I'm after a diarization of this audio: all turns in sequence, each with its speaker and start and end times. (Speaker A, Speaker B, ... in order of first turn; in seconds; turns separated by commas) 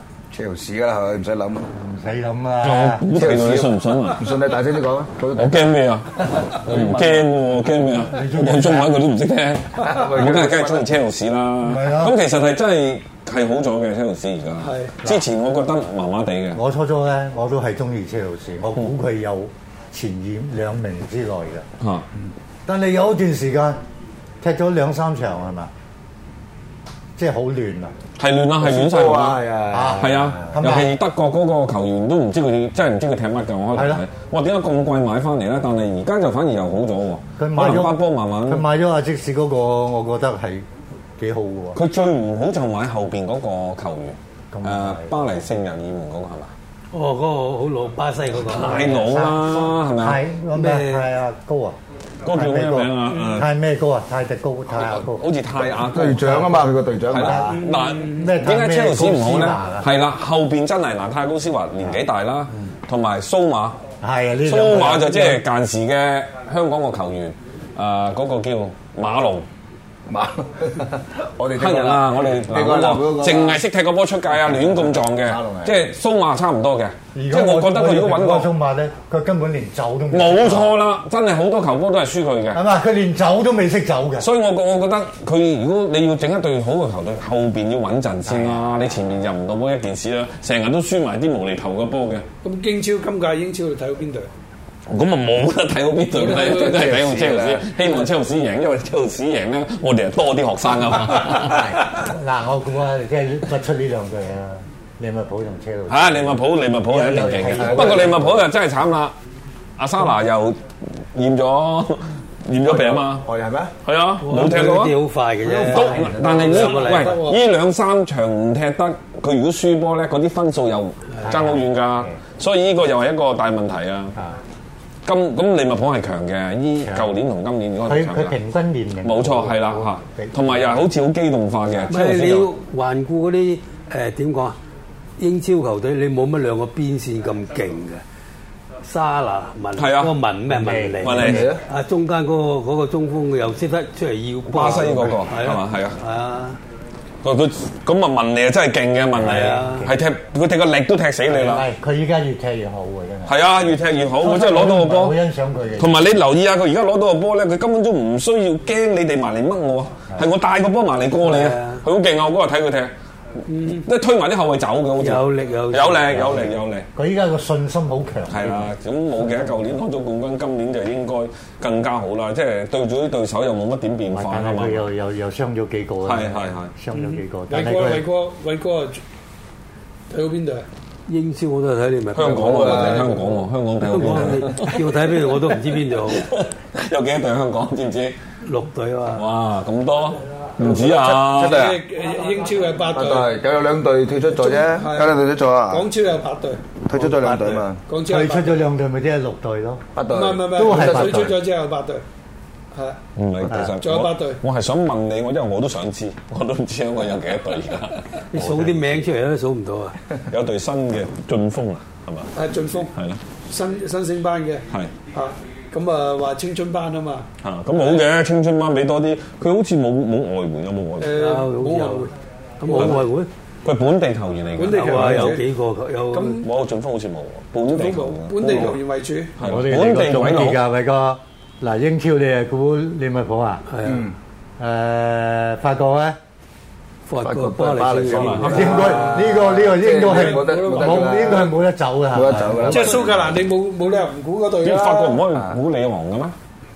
Speaker A: 0.3-1.7, Speaker B: 1.7-3.2, Speaker C: 2.6-4.3, Speaker A: 3.1-5.7, Speaker C: 5.3-16.6, Speaker B: 6.7-7.2, Speaker B: 8.0-9.0, Speaker D: 9.8-10.2, Speaker A: 9.8-11.0, Speaker B: 11.6-12.2, Speaker D: 14.6-15.0, Speaker B: 16.5-21.6, Speaker C: 21.8-22.0, Speaker B: 22.6-23.8, Speaker B: 24.4-25.7, Speaker B: 27.2-27.9, Speaker C: 28.2-29.4, Speaker A: 28.6-30.7, Speaker B: 29.7-30.9, Speaker C: 30.0-38.6, Speaker B: 33.7-34.0, Speaker B: 37.4-40.6, Speaker B: 41.2-41.8, Speaker C: 41.7-46.5, Speaker B: 44.5-45.2, Speaker E: 46.9-49.0, Speaker C: 48.5-50.2, Speaker B: 48.5-51.8, Speaker E: 50.5-51.1, Speaker C: 52.2-53.5, Speaker B: 52.3-55.2, Speaker D: 53.1-53.4, Speaker C: 54.7-63.8, Speaker A: 55.9-57.4, Speaker B: 56.2-56.6, Speaker B: 57.2-59.9, Speaker D: 57.4-58.3, Speaker B: 64.0-65.4, Speaker C: 64.4-69.5, Speaker A: 70.1-73.6, Speaker C: 71.5-78.5, Speaker A: 74.4-75.8, Speaker B: 77.1-80.7, Speaker C: 80.1-82.6, Speaker B: 82.5-84.3, Speaker C: 84.2-92.2, Speaker B: 88.2-88.7, Speaker D: 92.4-94.3, Speaker C: 94.9-101.8, Speaker D: 96.1-96.8, Speaker A: 96.7-97.7, Speaker B: 101.4-108.3, Speaker C: 105.9-109.1, Speaker A: 106.9-108.4, Speaker C: 109.8-113.2, Speaker A: 112.6-113.7, Speaker C: 113.8-114.9, Speaker E: 114.2-117.2, Speaker A: 115.4-116.7, Speaker C: 115.7-124.1, Speaker D: 116.5-117.4, Speaker B: 121.2-122.1, Speaker C: 125.0-128.4, Speaker B: 126.8-127.1, Speaker B: 127.8-130.8, Speaker C: 129.0-132.5, Speaker E: 131.9-134.6, Speaker E: 135.2-138.0, Speaker E: 138.8-146.6, Speaker C: 139.8-140.1, Speaker B: 140.5-141.4, Speaker C: 141.0-141.5, Speaker A: 141.2-141.6, Speaker C: 144.5-146.0, Speaker C: 147.2-151.6, Speaker B: 149.2-150.0, Speaker E: 149.2-149.9, Speaker B: 151.3-153.3, Speaker C: 153.2-155.2, Speaker B: 154.2-155.9, Speaker C: 155.8-162.9, Speaker E: 161.2-161.8, Speaker D: 163.5-163.8, Speaker C: 163.7-166.9, Speaker E: 165.0-166.5, Speaker B: 166.9-168.5, Speaker C: 168.3-174.9, Speaker B: 174.1-178.0, Speaker C: 176.0-176.8, Speaker D: 176.9-179.0, Speaker D: 180.1-180.7, Speaker E: 181.1-186.2, Speaker C: 182.1-184.8, Speaker A: 182.2-183.1, Speaker C: 186.1-188.2, Speaker E: 188.4-189.2, Speaker C: 189.1-191.6, Speaker A: 190.6-191.8, Speaker D: 191.4-193.3, Speaker A: 192.9-195.9, Speaker D: 194.4-196.6, Speaker A: 196.8-197.8, Speaker E: 196.9-197.7, Speaker D: 197.9-198.6, Speaker B: 198.1-199.8, Speaker A: 199.9-201.4, Speaker D: 200.1-202.0, Speaker B: 200.5-201.3, Speaker C: 203.2-208.9, Speaker D: 203.8-204.4, Speaker E: 208.3-209.9, Speaker C: 210.3-212.3, Speaker D: 212.3-212.9, Speaker C: 212.9-213.2, Speaker D: 213.5-217.3, Speaker C: 214.7-214.9, Speaker C: 217.4-221.1, Speaker D: 221.0-222.1, Speaker E: 221.1-222.1, Speaker E: 222.6-223.3, Speaker D: 222.6-222.9, Speaker C: 222.8-223.0, Speaker C: 223.6-225.4, Speaker D: 224.5-225.4, Speaker E: 224.7-226.4, Speaker D: 226.1-226.5, Speaker C: 226.4-228.8, Speaker D: 227.7-229.4, Speaker C: 229.4-230.6, Speaker B: 229.4-233.6, Speaker E: 233.7-234.1, Speaker A: 233.8-234.1, Speaker B: 234.6-236.2, Speaker E: 237.1-239.2, Speaker A: 237.2-241.5, Speaker C: 238.1-239.0, Speaker B: 238.4-243.0, Speaker D: 240.0-241.5, Speaker A: 242.1-243.3, Speaker E: 242.3-242.8, Speaker D: 242.7-245.2, Speaker C: 244.6-246.3, Speaker A: 245.3-245.6